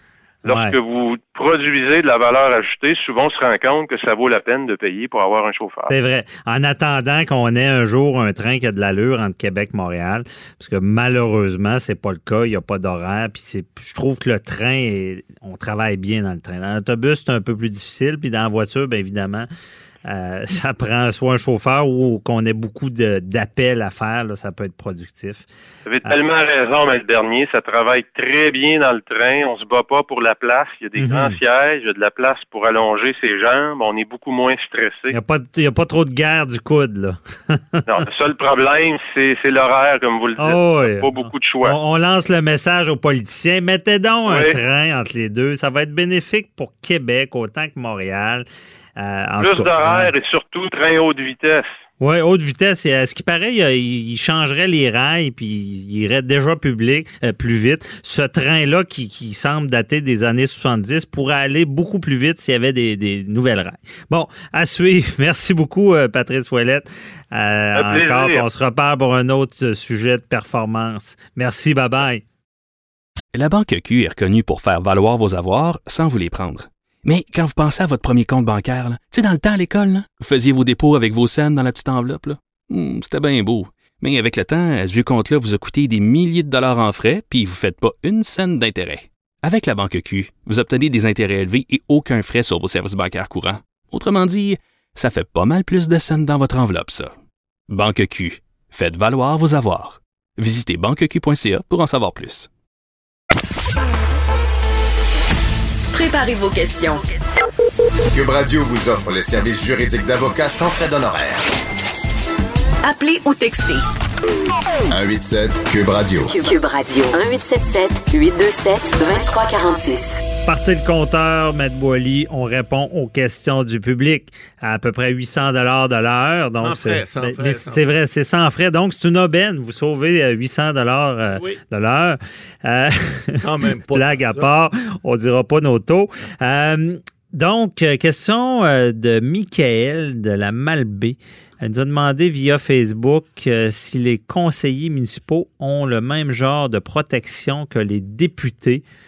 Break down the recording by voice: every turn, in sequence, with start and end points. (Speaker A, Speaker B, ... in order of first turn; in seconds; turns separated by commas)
Speaker A: 0.5-5.9, Speaker B: 0.5-0.8, Speaker B: 5.9-19.5, Speaker B: 20.0-25.4, Speaker A: 25.9-35.1, Speaker B: 31.0-31.4, Speaker B: 35.1-37.9, Speaker A: 37.9-41.8, Speaker B: 40.4-41.1, Speaker B: 41.6-48.4, Speaker A: 44.3-44.6, Speaker B: 49.0-50.1, Speaker A: 49.4-51.7, Speaker B: 52.0-72.2, Speaker A: 67.7-68.5, Speaker C: 73.3-97.1, Speaker C: 97.7-102.5, Speaker D: 105.9-107.0, Speaker E: 108.1-111.5, Speaker D: 112.8-113.8, Speaker E: 114.9-116.3, Speaker D: 116.3-120.2, Speaker B: 120.5-133.4, Speaker F: 126.6-127.8, Speaker F: 131.3-131.6, Speaker F: 133.4-134.5, Speaker B: 133.9-148.8